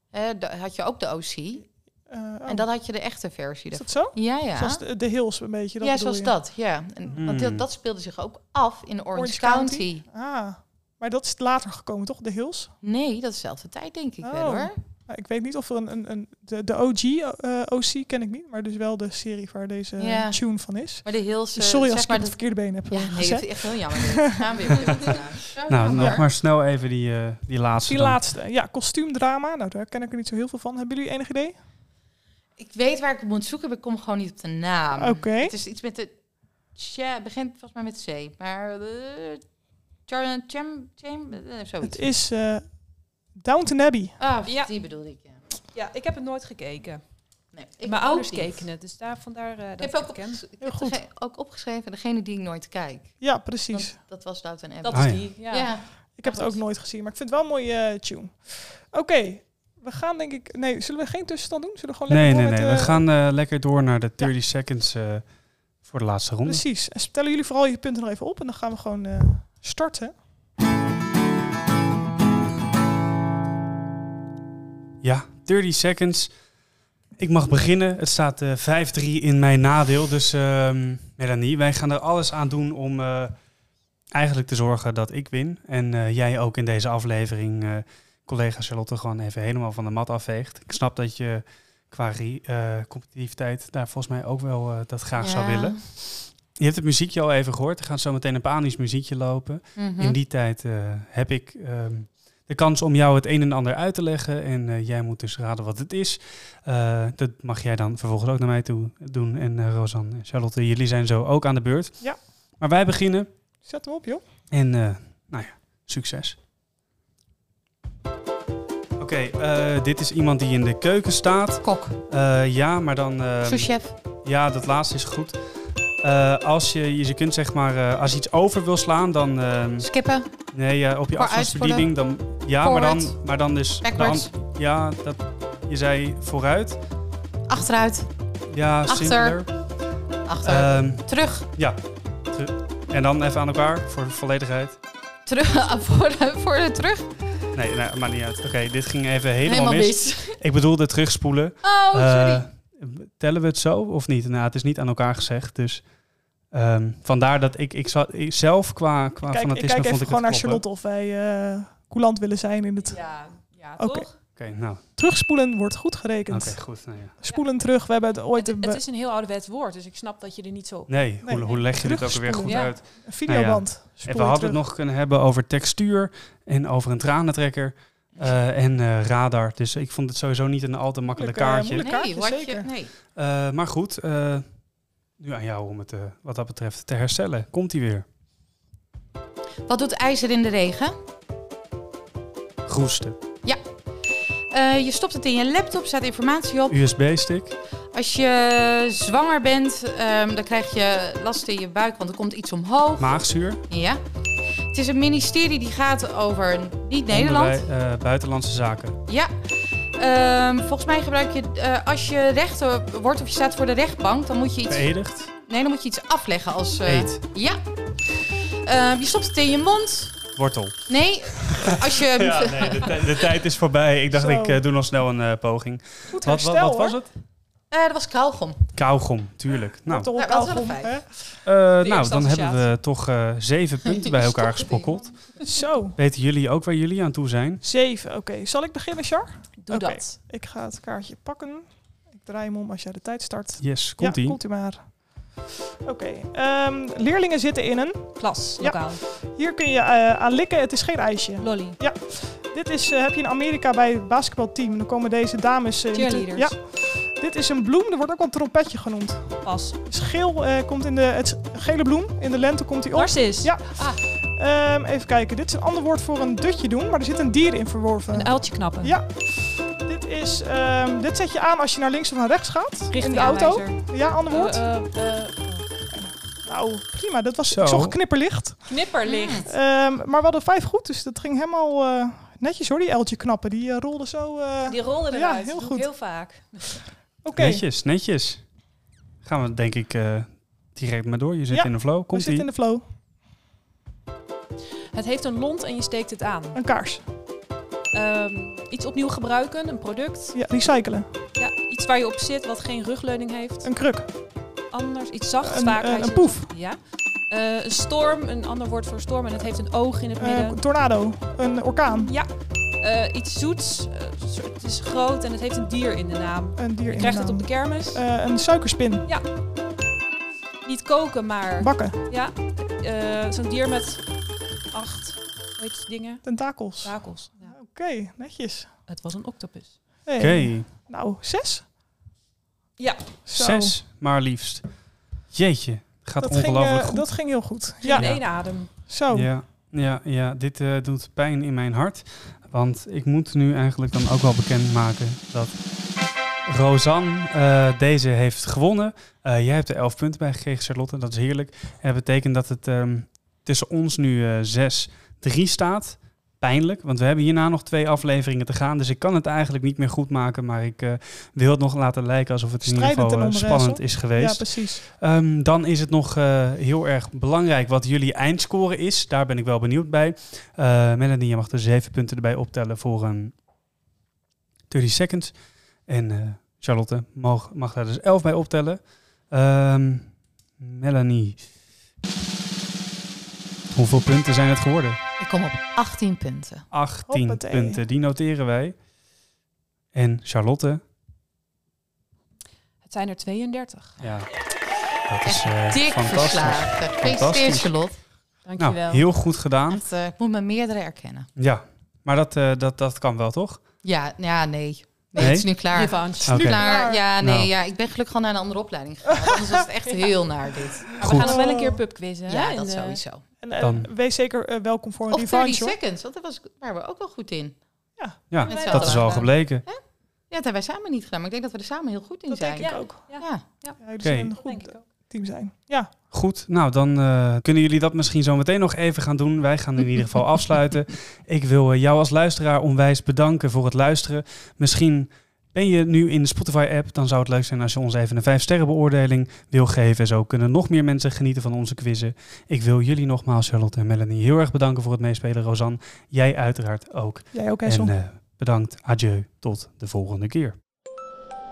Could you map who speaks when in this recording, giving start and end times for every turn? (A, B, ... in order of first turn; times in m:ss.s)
0:00.1-0:01.6 A
0:02.1-0:02.7 B
0:02.4-0:04.8 A
0:03.7-0:06.3 B
0:05.8-0:10.0 A
0:07.1-0:07.7 C
0:09.1-0:12.7 B
0:12.8-0:14.8 A
0:14.2-0:25.2 B
0:20.0-0:26.3 A
0:25.7-0:28.2 C
0:26.0-0:26.2 B
0:27.9-0:31.6 B
0:32.6-0:36.2 A
0:34.9-0:35.6 B
0:36.7-0:39.4 A
0:40.1-0:42.1 A
0:41.8-0:42.8 B
0:43.3-0:44.2 B
0:44.2-0:45.4 A
0:44.4-0:44.7 D
0:45.7-0:47.0 D
0:47.5-0:48.7 A
0:47.8-0:50.4 D
0:49.8-0:56.6 A
0:50.6-0:51.0 B
0:53.2-0:54.0 B
0:54.8-0:55.8 D
0:54.9-0:55.2 C
0:56.2-1:03.0 B
1:02.1-1:05.3 C
1:05.8-1:06.6 C
1:06.4-1:10.1 B
1:15.0-1:16.3 C
1:17.2-1:23.4 C
1:24.1-1:53.3 C
1:35.2-1:35.8 A
1:39.8-1:40.2 A
1:53.6-1:54.2 B
1:54.5-1:56.4 C
1:59.0-2:03.7 C
2:01.6-2:02.0 A
2:03.4-2:03.9 A
2:04.2-2:05.4 C
2:06.0-2:09.9 C
2:09.8-2:10.3 A
2:10.5-2:16.8 C
2:11.1-2:11.9 A
2:12.6-2:13.2 A
2:13.8-2:14.3 A
2:17.5-2:18.1 A
2:18.5-2:19.5 C
2:18.9-2:19.4 A
2:20.3-2:21.5 A
2:20.4-2:21.8 C
2:22.3-2:24.8 C
2:25.3-2:27.2 A
2:27.5-2:35.8 C
2:29.4-2:30.4 A
2:31.6-2:32.4 A
2:36.5-2:40.6 C
2:39.2-2:43.0 B
2:42.8-2:44.2 D
2:43.8-2:44.1 B
2:44.4-2:44.8 C
2:45.0-2:48.8 B
2:46.3-2:47.1 C
2:48.4-2:51.6 D
2:50.9-3:01.9 C
2:51.2-2:54.6 B
2:52.4-2:52.8 D
3:01.1-3:02.7 B
3:01.8-3:02.9 A
3:03.1-3:04.4 C
3:05.2-3:08.0 C
3:09.7-3:11.0 A
3:12.7-3:13.2 C
3:14.5-3:16.8 A
3:16.7-3:17.6 C
3:17.9-3:24.0 A
3:23.0-3:23.6 C
3:24.7-3:27.6 A
3:27.1-3:29.0 C
3:29.1-3:40.2 A
3:34.7-3:35.3 C
3:36.8-3:37.2 C
3:40.4-3:47.1 C
3:40.9-3:43.3 A
3:44.1-3:44.6 B
3:46.1-3:47.0 B
3:47.7-3:48.7 A
3:48.7-3:50.1 C
3:49.8-3:51.4 B
3:50.1-3:51.0 A
3:51.4-3:55.2 C
3:51.8-3:52.7 D
3:53.9-3:55.2 A
3:55.4-3:56.0 B
3:56.0-3:57.6 C
3:57.6-4:34.7 B
3:59.6-4:00.2 D
4:03.6-4:04.4 C
4:08.2-4:09.0 D
4:11.4-4:11.8 D
4:15.9-4:16.6 D
4:19.4-4:19.8 D
4:22.9-4:24.0 D
4:28.1-4:29.0 D
4:32.9-4:35.7 D
4:35.9-4:38.9 B
4:37.5-4:38.0 C
4:38.7-4:39.5 D
4:39.0-4:39.5 A
4:39.4-4:45.9 B
4:44.7-4:46.8 D
4:47.2-4:47.6 B
4:47.3-4:48.4 C
4:49.2-4:52.5 C
4:51.5-4:52.8 B
4:54.9-4:56.6 D
4:56.5-4:57.0 B
4:57.9-5:00.4 D
5:00.3-5:01.1 B
5:01.4-5:03.7 D
5:03.6-5:04.1 B
5:04.7-5:10.6 D
5:05.4-5:06.5 B
5:10.2-5:12.1 B
5:11.9-5:18.0 D
5:16.6-5:19.1 B
5:20.6-5:24.0 D
5:21.6-5:22.0 B
5:24.7-5:27.6 D
5:26.2-5:28.7 B
5:28.9-5:29.8 D
5:30.0-5:31.7 B
5:30.2-5:30.7 C
5:32.8-5:33.2 D
5:33.3-5:33.8 B
5:33.3-5:34.7 C
5:35.3-5:37.1 C
5:36.2-5:39.3 B
5:37.8-5:38.7 D
5:37.9-5:38.6 C
5:39.1-5:45.6 C
5:46.4-6:13.3 C
6:02.6-6:04.8 B
6:14.7-6:15.3 C
6:15.9-6:21.4 C
6:23.7-6:25.0 C
6:25.2-6:26.7 A
6:26.7-6:28.8 C
6:27.1-6:27.8 B
6:29.9-6:30.8 C
6:32.8-6:34.0 D
6:34.0-6:34.3 C
6:35.0-6:37.7 C
6:35.2-6:38.0 A
6:38.4-6:39.1 D
6:38.6-6:39.8 C
6:39.7-6:41.3 A
6:41.4-6:43.6 C
6:43.8-6:51.1 A
6:45.1-6:45.5 C
6:45.7-6:46.5 D
6:46.2-6:46.6 C
6:46.4-6:47.0 B
6:47.2-6:47.5 C
6:49.8-6:50.2 D
6:50.9-6:53.0 D
6:51.0-6:51.4 C
6:51.1-6:51.8 B
6:52.3-6:53.2 A
6:53.4-6:55.8 B
6:53.6-6:53.9 C
6:55.1-6:57.6 A
6:58.0-6:58.2 B
6:58.3-6:59.6 C
6:58.4-7:03.5 A
6:58.4-6:59.3 D
7:02.4-7:03.2 B
7:02.4-7:04.8 D
7:03.8-7:05.9 B
7:04.0-7:04.3 C
7:06.1-7:30.6 C
7:27.3-7:28.0 B